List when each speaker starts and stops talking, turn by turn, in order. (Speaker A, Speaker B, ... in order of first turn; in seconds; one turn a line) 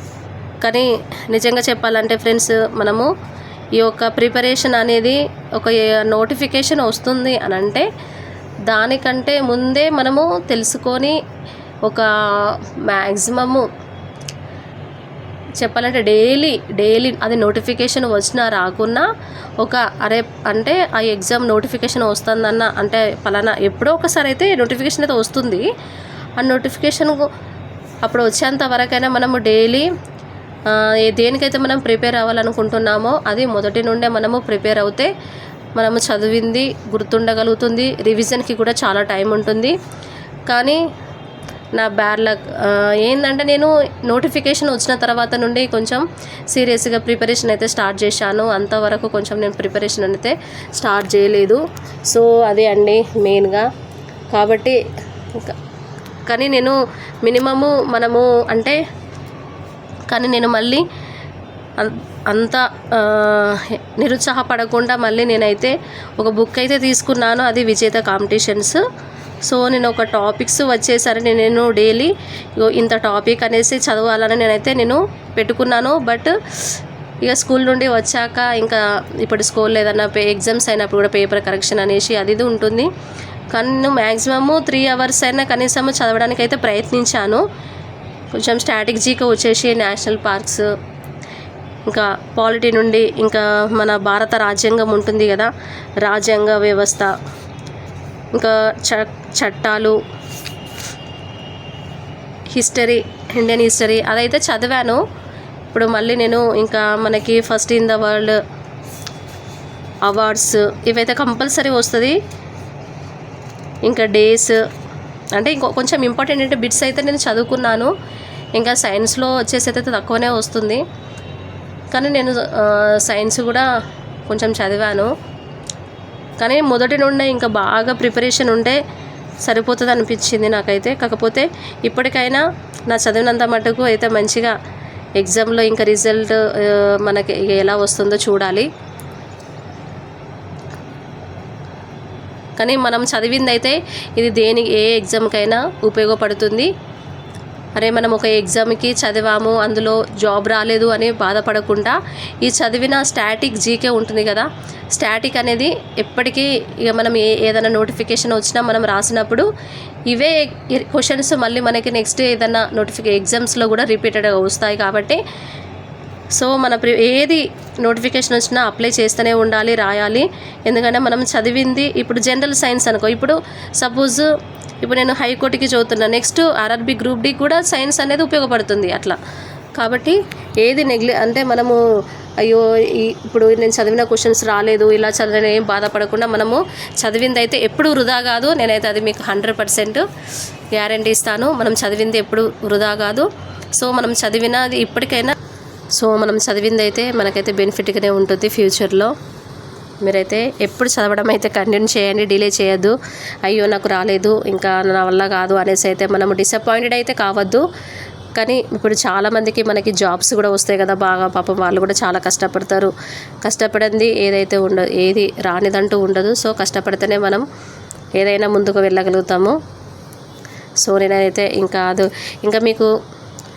Speaker A: 0.6-3.1
Speaker A: 3.8-7.8
Speaker A: 8.7-11.2
Speaker A: 11.9-13.7
Speaker A: 15.6-19.1
Speaker A: 19.6-25.7
Speaker A: 26.4-27.2
Speaker A: 28.0-29.9
Speaker A: 30.7-35.1
Speaker A: 35.8-39.7
Speaker A: 40.5-40.8
Speaker A: 41.7-53.7
Speaker A: 54.3-54.8
Speaker A: 56.2-58.8
Speaker A: 60.1-60.8
Speaker A: 61.8-68.8
Speaker A: 69.4-76.3
Speaker A: 77.2-82.9
Speaker A: 83.5-87.4
Speaker A: 88.3-90.7
Speaker A: 91.9-95.5
Speaker A: 96.0-97.1
Speaker A: 98.3-100.0
Speaker A: 102.5-105.0
Speaker A: 105.7-108.4
Speaker A: 110.0-112.2
Speaker A: 113.8-114.6
Speaker A: 115.3-117.9
Speaker A: 118.5-120.8
Speaker A: 121.9-123.7
Speaker A: 124.3-125.1
Speaker A: 126.4-128.8
Speaker A: 129.4-134.5
Speaker A: 135.2-138.7
Speaker A: 142.6-146.7
Speaker A: 147.8-159.5
Speaker A: 160.1-165.2
Speaker A: 166.3-174.3
Speaker A: 174.8-179.2
Speaker A: 179.8-181.8
Speaker A: 182.4-190.0
Speaker A: 190.7-195.3
Speaker A: 195.9-199.1
Speaker A: 200.0-207.7
Speaker A: 208.3-212.9
Speaker A: 213.4-217.4
Speaker A: 218.2-219.6
Speaker A: 220.8-222.9